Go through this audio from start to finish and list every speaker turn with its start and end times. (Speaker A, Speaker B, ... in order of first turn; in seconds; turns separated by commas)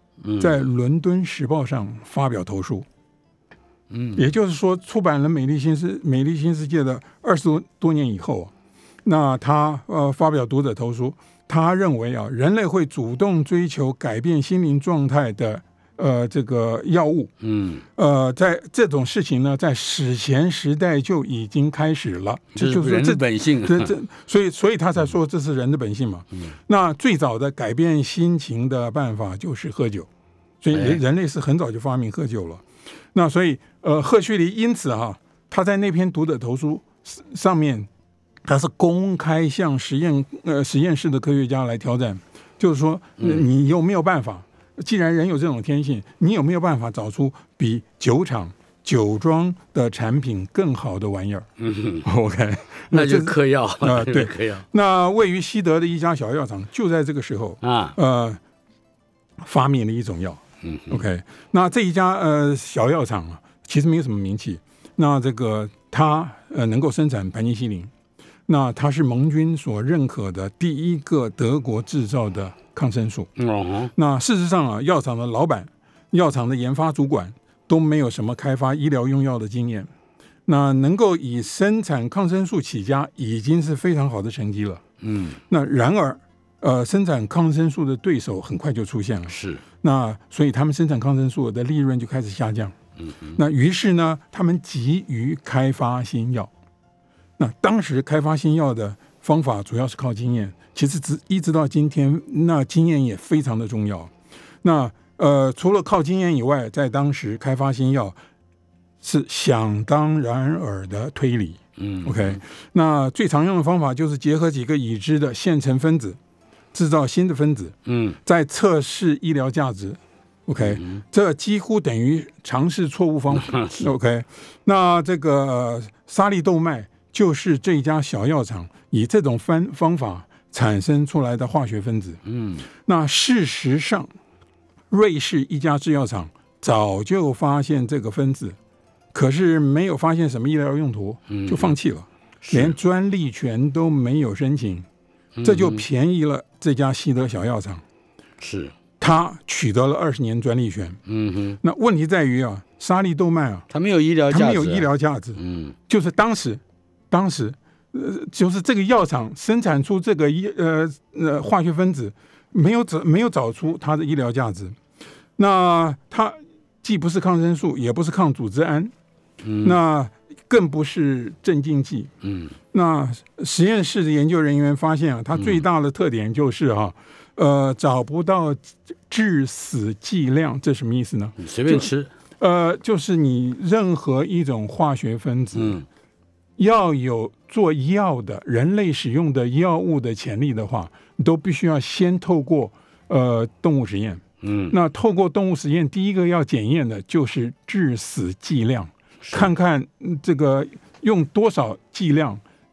Speaker A: 0.2-0.6, Speaker B: 0.4-2.9, Speaker A: 3.9-4.2, Speaker B: 4.2-8.5, Speaker B: 9.0-17.3, Speaker A: 17.4-17.9, Speaker B: 17.9-30.1, Speaker A: 22.5-23.9, Speaker B: 30.6-37.9, Speaker A: 30.7-31.0, Speaker B: 38.4-51.5, Speaker A: 43.2-43.5, Speaker A: 51.6-52.0, Speaker B: 52.0-58.4, Speaker A: 52.9-54.6, Speaker A: 57.6-58.0, Speaker B: 59.4-67.9, Speaker A: 60.6-61.0, Speaker B: 68.5-73.3, Speaker A: 73.4-73.9, Speaker B: 73.9-79.9, Speaker B: 80.5-84.8, Speaker A: 85.0-85.4, Speaker B: 85.5-92.8, Speaker A: 89.3-89.6, Speaker A: 93.0-93.4, Speaker B: 93.4-96.5, Speaker B: 97.4-104.1, Speaker B: 104.6-108.2, Speaker B: 109.0-116.2, Speaker A: 111.8-112.4, Speaker B: 116.7-132.2, Speaker A: 117.9-118.2, Speaker A: 120.6-121.0, Speaker A: 123.3-123.9, Speaker A: 132.2-132.7, Speaker B: 132.7-134.1, Speaker B: 134.9-138.6, Speaker B: 139.1-144.9, Speaker A: 141.3-141.7, Speaker A: 142.4-142.8, Speaker A: 145.4-145.9, Speaker B: 145.4-147.8, Speaker A: 148.4-148.7, Speaker B: 149.0-151.0, Speaker A: 151.1-151.6, Speaker B: 151.6-153.7, Speaker A: 153.7-155.8, Speaker B: 154.3-164.8, Speaker B: 165.4-168.9, Speaker A: 169.4-169.8, Speaker B: 169.6-172.1, Speaker A: 172.2-172.6, Speaker B: 172.7-181.9, Speaker A: 175.3-175.6, Speaker A: 181.4-182.1, Speaker B: 182.4-185.8, Speaker A: 185.5-185.9, Speaker B: 186.6-202.4, Speaker A: 194.4-194.7, Speaker A: 199.2-199.5